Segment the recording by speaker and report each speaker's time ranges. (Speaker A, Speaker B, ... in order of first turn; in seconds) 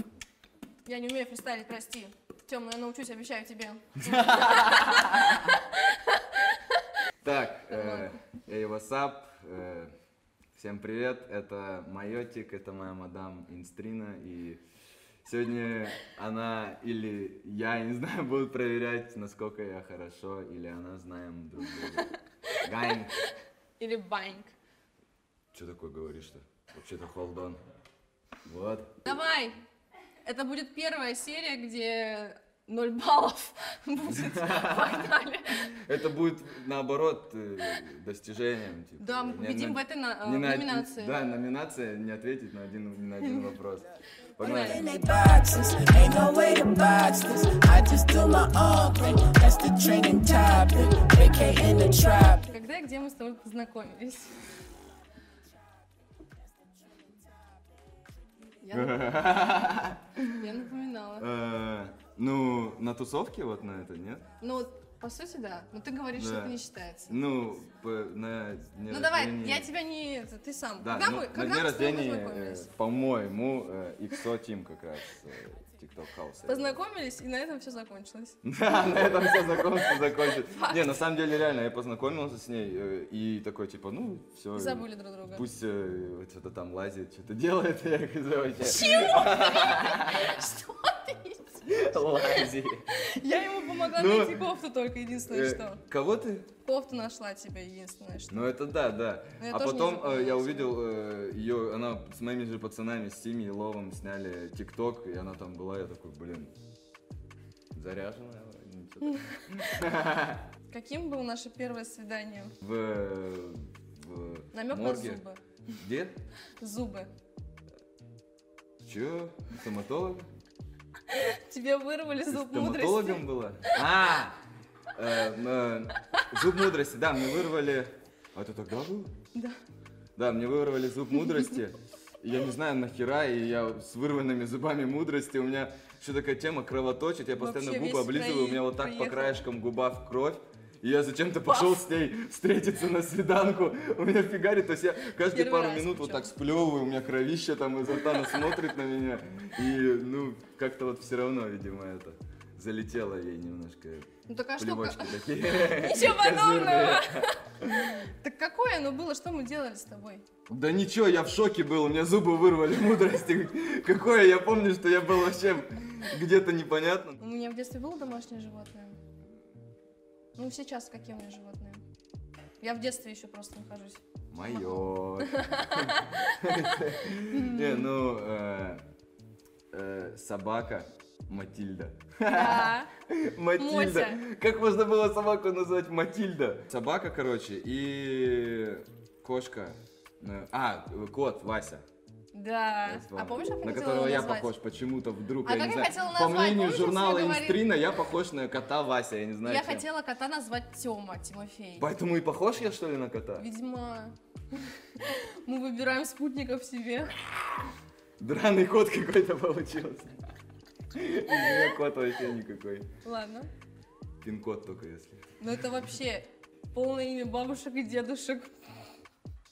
Speaker A: 0.8-6.8, 7.7-8.2, 21.8-24.5, 29.0-29.6, 30.2-35.8, 39.0-41.2, 43.2-43.5, 44.4-45.1, 52.1-54.5, 58.6-59.2, 60.3-61.3, 64.4-67.2, 68.9-72.7, 76.5-78.4, 79.0-81.0, 84.5-85.4, 88.6-91.6, 92.2-95.8, 96.6-98.5, 99.4-100.8, 109.0-109.4, 110.7-112.5, 114.5-115.4, 116.6-117.1, 121.1-123.9, 126.1-126.6, 137.4-139.4, 141.5-141.8, 145.3-146.3, 148.2-148.5, 154.3-160.2, 167.2-169.0, 170.3-171.8, 172.6-177.9, 182.3-182.9, 183.6-184.2, 192.3-194.5, 195.4-197.6, 199.4-201.9, 203.4-207.6, 211.3-211.8, 213.0-213.5, 215.4-218.6
Speaker B: 4.0-5.5, 7.2-9.9, 10.5-14.6, 15.2-23.1, 25.5-27.6, 28.4-29.0, 34.0-35.1, 35.7-45.0, 58.7-60.4, 61.2-64.2, 66.1-66.6, 67.1-69.7, 70.8-76.8, 78.4-90.3, 91.6-92.9, 93.9-94.4, 95.3-96.5, 98.3-106.5, 107.7-110.4, 112.6-115.2, 115.7-116.2, 118.8-120.3, 122.3-124.4, 124.9-129.1, 130.2-158.1, 160.5-167.2, 174.3-178.8, 179.7-191.8, 192.9-199.8, 201.8-203.4, 208.2-210.2, 210.9-212.9, 214.2-215.2
Speaker C: 44.8-52.4